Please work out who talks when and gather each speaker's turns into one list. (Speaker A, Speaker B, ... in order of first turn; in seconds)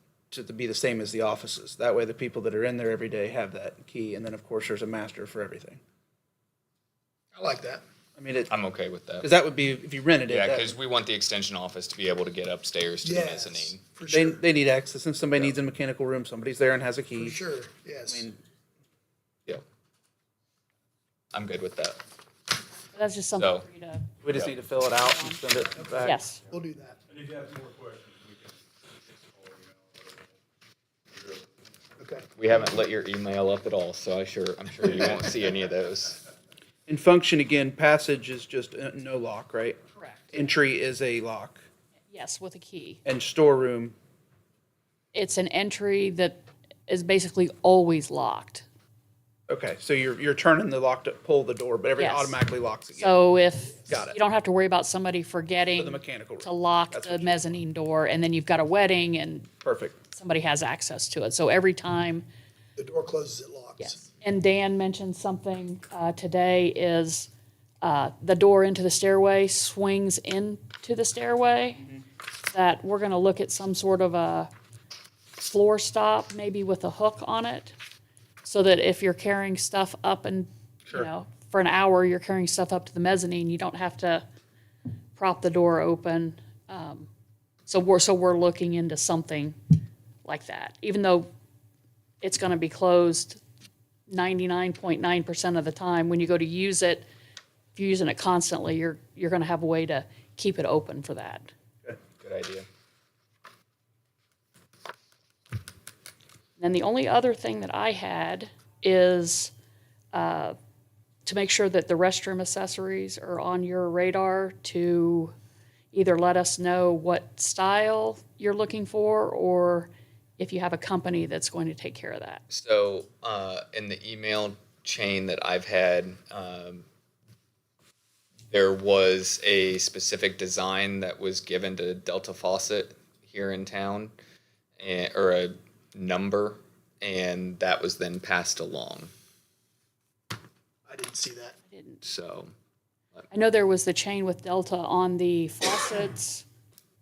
Speaker A: 0.3-5.8, 8.2-8.5, 9.2-10.8, 14.1-17.4, 18.1-18.4, 24.2-26.2, 36.9-39.8, 40.3-41.7, 43.0-44.0, 49.5-53.2, 53.9-54.2, 55.7-57.6, 59.6-60.0
Speaker B: 7.3-7.8, 13.0-14.4, 17.2-18.3, 25.8-27.0, 32.0-32.3, 62.8-64.1, 140.8-141.6
Speaker C: 8.5-9.3, 10.3-13.8, 21.3-22.0, 23.3-23.7, 24.3-24.6, 32.4-36.2, 102.2-102.7, 122.5-126.9, 128.5-134.2, 134.8-139.1, 142.0-142.5
Speaker D: 22.9-24.1, 24.8-25.4, 26.0-26.4, 39.9-40.4, 42.1-43.0, 45.1-48.6, 52.0-52.4, 52.9-59.5, 60.1-62.2, 63.8-67.3, 67.8-71.8, 72.5-74.5, 75.3-77.7, 78.4-84.2, 85.2-87.1, 87.7-89.6, 90.2-91.3, 92.2-93.4, 94.1-97.0, 97.7-101.5, 106.6-109.5, 110.1-110.5, 111.2-115.3, 115.9-122.4, 141.7-142.0, 143.3-146.4
Speaker E: 27.1-30.4, 31.1-31.5